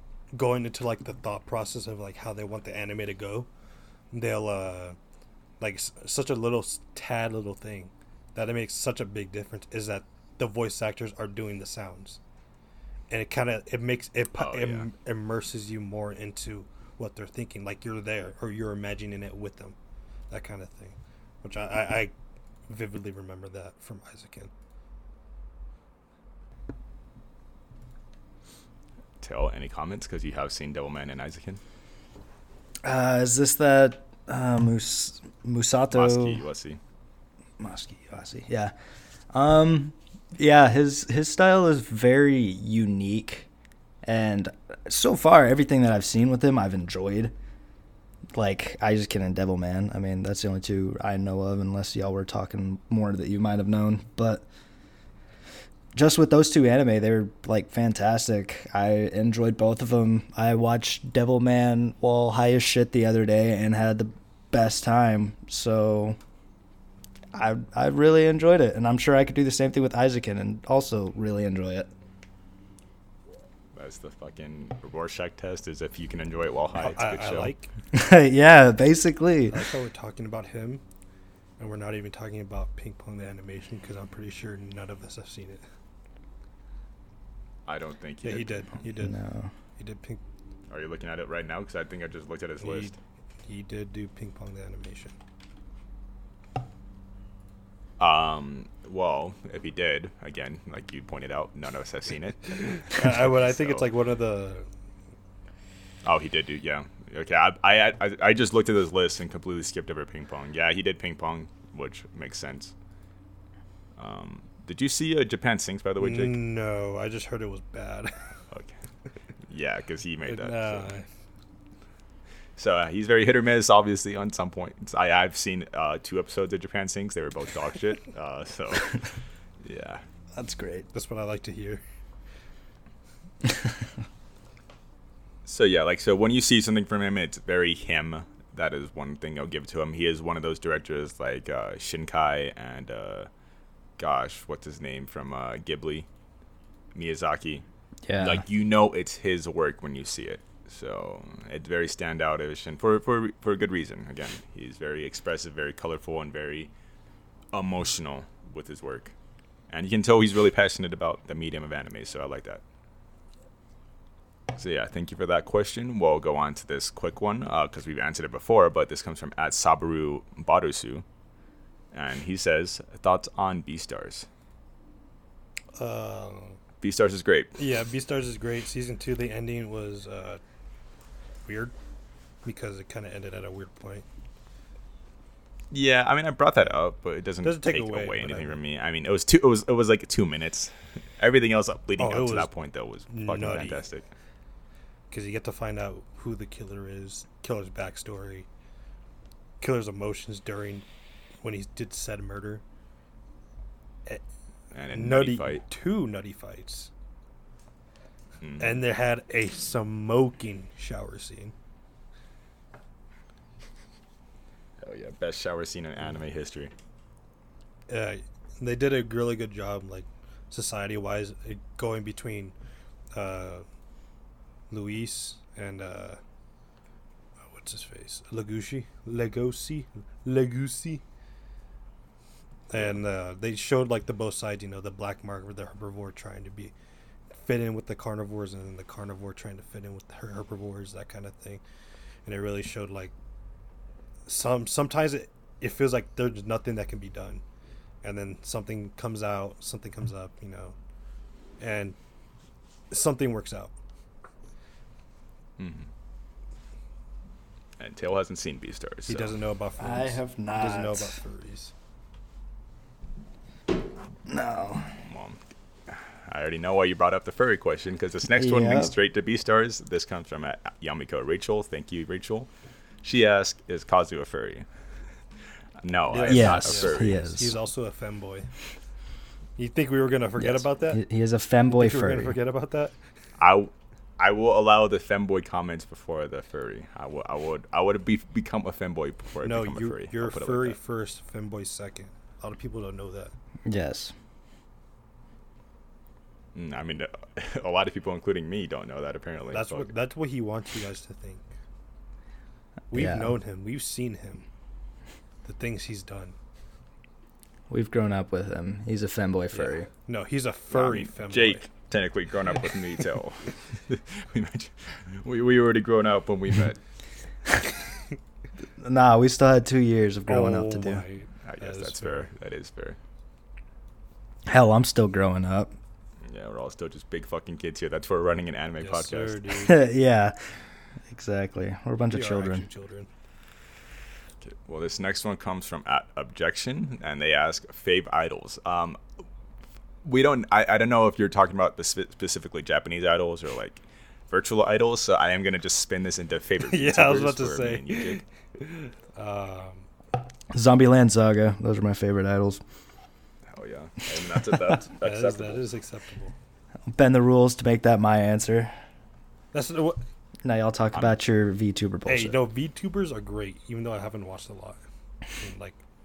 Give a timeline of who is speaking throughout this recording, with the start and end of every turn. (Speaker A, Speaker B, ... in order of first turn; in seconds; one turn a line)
Speaker A: 0.3-3.5
Speaker A: 4.1-5.0
Speaker A: 5.6-12.2
Speaker A: 13.1-19.8
Speaker B: 14.3-14.9
Speaker A: 20.3-22.1
Speaker A: 22.7-24.5
Speaker B: 29.2-31.6
Speaker C: 32.8-36.4
Speaker B: 35.9-36.8
Speaker C: 37.6-38.7
Speaker C: 39.3-43.5
Speaker C: 44.0-47.3
Speaker C: 48.3-54.5
Speaker C: 55.9-66.2
Speaker C: 67.3-71.9
Speaker B: 73.7-77.5
Speaker A: 76.8-77.7
Speaker C: 77.9-79.7
Speaker A: 79.5-80.8
Speaker A: 81.6-85.6
Speaker B: 87.7-88.8
Speaker A: 88.2-89.2
Speaker C: 89.0-89.5
Speaker A: 89.8-90.2
Speaker B: 90.7-93.0
Speaker A: 92.6-92.9
Speaker A: 93.5-95.1
Speaker B: 98.0-103.8
Speaker A: 102.5-104.7
Speaker B: 106.0-112.7
Speaker B: 114.0-116.4
Speaker A: 116.0-118.3
Speaker B: 118.5-118.8
Speaker B: 119.5-120.9
Speaker A: 120.2-121.0
Speaker B: 122.6-129.1
Speaker B: 129.6-130.0
Speaker C: 130.3-130.9
Speaker A: 130.9-131.8
Speaker B: 135.4-143.3
Speaker B: 144.0-146.1
Speaker B: 146.9-156.7
Speaker C: 148.1-148.4
Speaker B: 157.5-159.1
Speaker B: 159.7-162.6
Speaker B: 164.5-171.0
Speaker B: 171.9-174.3
Speaker A: 175.7-176.6
Speaker B: 176.8-177.5
Speaker A: 177.6-180.4
Speaker A: 181.4-181.7
Speaker A: 182.4-184.0
Speaker B: 185.7-194.1
Speaker A: 187.4-188.6
Speaker A: 192.0-192.5
Speaker A: 193.1-193.8
Speaker A: 195.1-198.5
Speaker A: 199.6-200.8
Speaker A: 201.4-202.6
Speaker B: 204.7-205.6
Speaker A: 204.9-206.9
Speaker B: 208.4-208.8
Speaker A: 208.6-211.5
Speaker B: 214.8-216.7
Speaker A: 217.9-222.5
Speaker A: 223.1-223.6
Speaker A: 224.7-226.2
Speaker A: 227.5-231.0
Speaker A: 232.7-236.7
Speaker B: 232.7-233.0
Speaker A: 237.3-241.6
Speaker A: 242.2-243.1
Speaker A: 244.2-247.4
Speaker A: 248.0-250.7
Speaker A: 251.6-252.0
Speaker A: 252.9-253.7
Speaker B: 255.6-255.9
Speaker B: 257.8-259.3
Speaker A: 259.1-261.7
Speaker C: 259.8-261.2
Speaker C: 264.3-264.9
Speaker B: 265.0-272.5
Speaker C: 268.4-268.9
Speaker B: 273.0-274.7
Speaker B: 275.8-277.2
Speaker A: 276.1-278.5
Speaker C: 276.3-277.6
Speaker A: 279.6-281.0
Speaker C: 280.4-282.4
Speaker A: 281.7-282.9
Speaker B: 283.4-290.8
Speaker A: 289.4-293.3
Speaker C: 293.7-294.1
Speaker B: 296.5-299.9
Speaker A: 299.5-301.4
Speaker A: 302.9-304.4
Speaker C: 302.9-303.4
Speaker A: 305.4-306.4
Speaker C: 307.7-309.9
Speaker A: 309.5-311.7
Speaker B: 310.7-316.8
Speaker C: 318.8-321.0
Speaker A: 320.3-322.3
Speaker B: 321.4-323.0
Speaker C: 324.5-325.7
Speaker B: 326.2-329.4
Speaker A: 328.8-329.8
Speaker C: 329.6-332.6
Speaker A: 332.1-333.1
Speaker B: 334.4-339.0
Speaker B: 340.0-348.2
Speaker A: 346.6-349.9
Speaker C: 350.5-352.6
Speaker B: 353.5-355.6
Speaker A: 355.0-356.3
Speaker C: 356.9-358.7
Speaker A: 359.5-360.0
Speaker C: 360.4-362.4
Speaker B: 360.9-361.2
Speaker A: 362.1-365.8